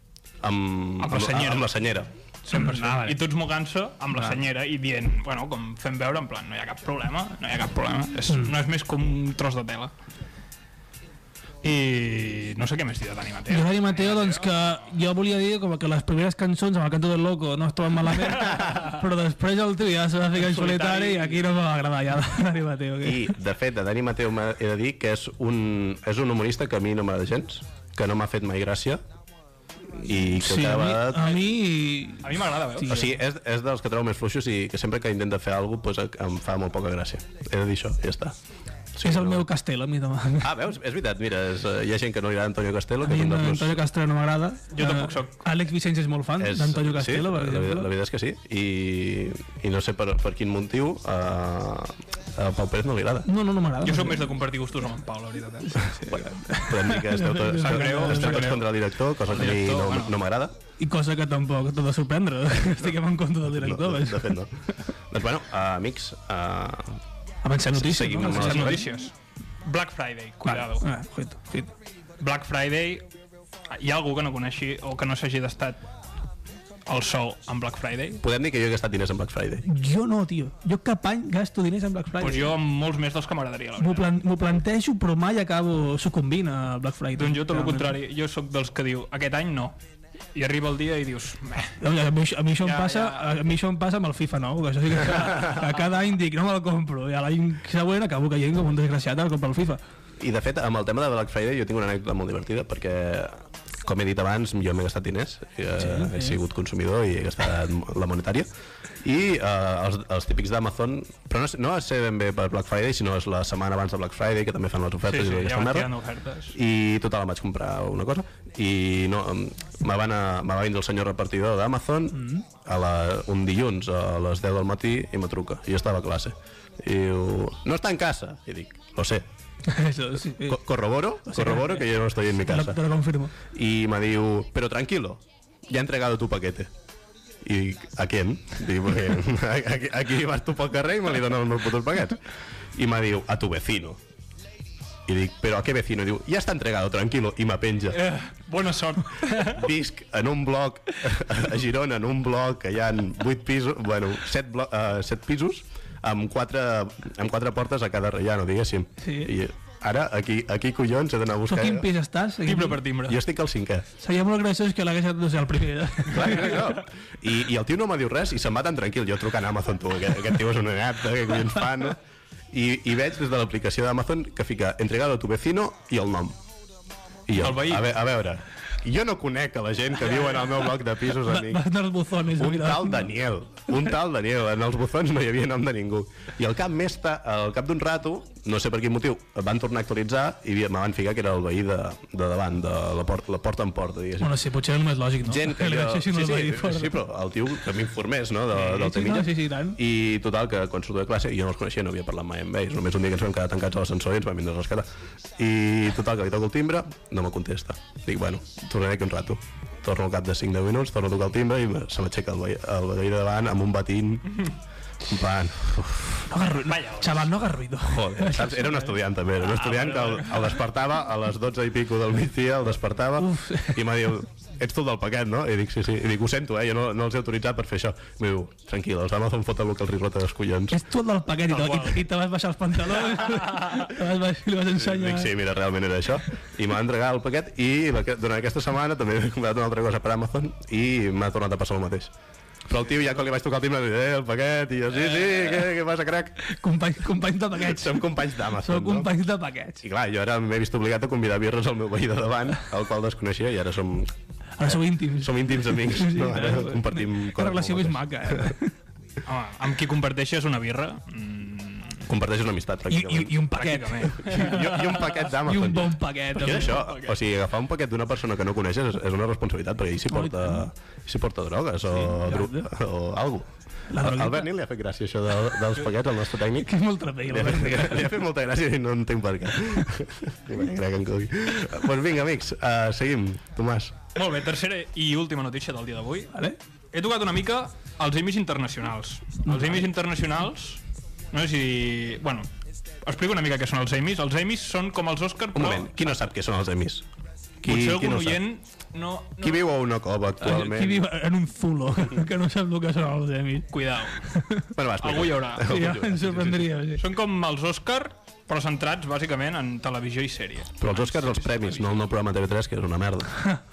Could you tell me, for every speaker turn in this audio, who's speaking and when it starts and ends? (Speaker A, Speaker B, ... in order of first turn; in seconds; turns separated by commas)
Speaker A: 0.4-2.1, Speaker B: 1.0-1.8, Speaker B: 2.4-9.9, Speaker C: 2.5-3.2, Speaker B: 11.6-14.6, Speaker C: 13.5-23.3, Speaker B: 20.4-21.5, Speaker A: 23.0-29.0, Speaker A: 29.9-31.4, Speaker C: 30.4-33.1, Speaker B: 32.2-33.0, Speaker A: 32.9-38.4, Speaker A: 38.9-39.5, Speaker C: 39.0-40.5, Speaker A: 40.4-43.8, Speaker C: 43.0-47.9, Speaker B: 44.7-45.4, Speaker A: 46.4-53.3, Speaker C: 53.2-54.3, Speaker B: 53.8-55.8, Speaker C: 55.7-58.5, Speaker A: 56.1-60.5, Speaker B: 57.6-60.1, Speaker C: 60.8-64.4, Speaker A: 63.5-64.5, Speaker A: 65.1-67.0, Speaker C: 67.4-68.9, Speaker A: 67.7-68.8, Speaker B: 68.2-70.8, Speaker C: 70.4-71.7, Speaker B: 72.2-73.0, Speaker B: 73.7-75.8, Speaker B: 76.8-78.2, Speaker A: 78.2-79.6, Speaker C: 79.6-82.5, Speaker B: 82.2-84.1, Speaker C: 83.8-88.0, Speaker B: 87.2-89.8, Speaker B: 90.3-91.8, Speaker C: 91.8-99.8, Speaker B: 92.6-93.3, Speaker A: 100.2-108.5, Speaker C: 105.8-106.3, Speaker A: 109.0-115.9, Speaker B: 115.0-116.6, Speaker A: 116.5-129.2, Speaker C: 122.1-122.4, Speaker C: 129.7-130.6, Speaker A: 130.3-132.8, Speaker C: 131.2-131.8, Speaker C: 132.4-133.3, Speaker A: 133.5-136.7, Speaker A: 137.4-144.0, Speaker A: 145.1-148.0, Speaker B: 147.9-149.7, Speaker A: 149.4-161.9, Speaker C: 159.0-159.3, Speaker C: 161.4-162.8, Speaker B: 162.4-163.2, Speaker A: 163.1-163.8, Speaker C: 164.0-166.6, Speaker A: 166.1-172.0, Speaker A: 172.5-176.4, Speaker A: 177.3-181.7, Speaker B: 177.3-177.9, Speaker B: 180.1-180.6, Speaker C: 181.2-183.1, Speaker A: 182.3-194.4, Speaker C: 194.2-197.0, Speaker A: 195.2-214.4, Speaker C: 198.5-199.8, Speaker A: 215.1-216.2, Speaker C: 216.3-218.9, Speaker B: 216.6-217.3, Speaker A: 217.8-230.8, Speaker B: 219.5-220.4, Speaker C: 223.2-223.8, Speaker C: 230.7-235.3, Speaker B: 231.5-232.0, Speaker B: 233.2-233.7, Speaker A: 234.8-242.1, Speaker A: 242.7-246.4, Speaker C: 246.4-249.8, Speaker A: 247.6-249.1, Speaker A: 249.8-254.1, Speaker C: 254.6-258.7, Speaker A: 254.6-258.5, Speaker B: 259.2-262.0, Speaker A: 262.1-263.5, Speaker C: 262.9-264.7, Speaker B: 263.5-265.3, Speaker A: 264.1-283.9, Speaker C: 265.4-266.8, Speaker B: 266.6-267.1, Speaker C: 270.1-270.6, Speaker C: 271.9-272.7, Speaker C: 273.9-274.5, Speaker C: 276.6-278.1, Speaker B: 284.1-286.3, Speaker B: 286.9-290.8, Speaker C: 289.5-289.8, Speaker B: 291.3-292.5, Speaker B: 293.0-296.3, Speaker A: 295.5-297.0, Speaker A: 297.6-298.5, Speaker B: 297.6-299.6, Speaker A: 299.4-301.1, Speaker C: 300.4-304.7, Speaker B: 303.7-304.2, Speaker A: 304.7-306.7, Speaker B: 305.0-305.7, Speaker C: 305.6-307.0, Speaker B: 307.0-311.9, Speaker A: 310.8-313.4